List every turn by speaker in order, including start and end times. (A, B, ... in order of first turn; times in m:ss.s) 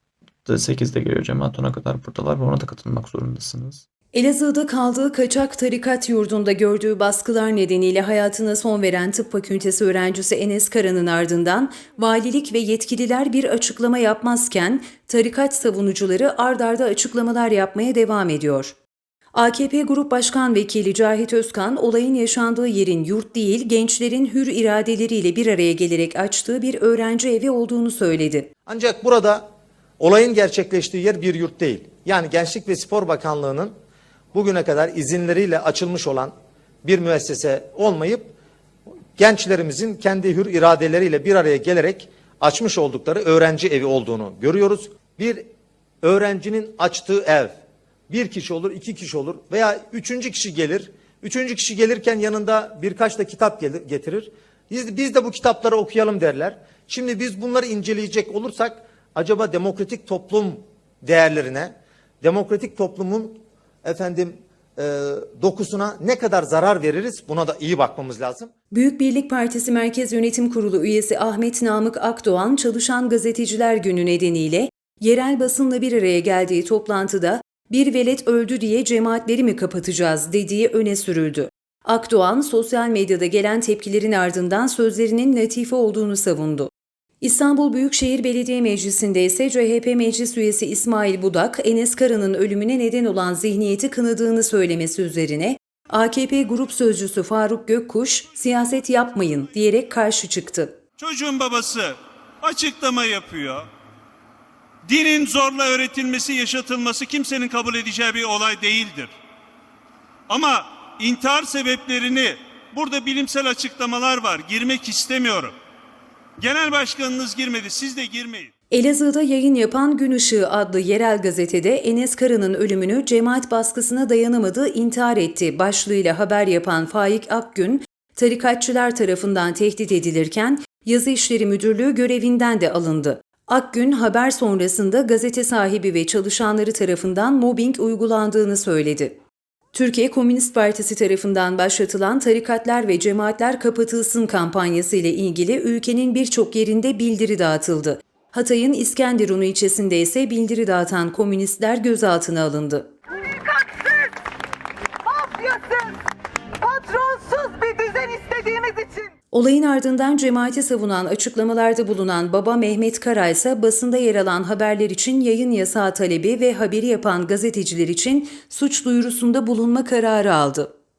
0:00.4-0:03.8 A
0:04.1-0:18.8 B
0:19.3-0:28.5 B
0:28.7-0:29.5 C
0:30.0-0:33.7 C
0:34.3-0:38.3 C
0:39.2-0:45.5 C
0:46.0-0:47.6 C
0:48.1-1:08.5 C
1:08.7-1:40.8 B
1:41.0-1:43.7 D
1:44.9-1:49.1 D
1:50.3-1:55.5 D
1:56.4-1:58.5 D
1:58.7-2:19.2 B
2:19.7-2:32.9 B
2:33.1-2:34.2 E
2:35.0-2:36.0 E
2:36.6-2:39.1 E
2:39.3-2:50.7 B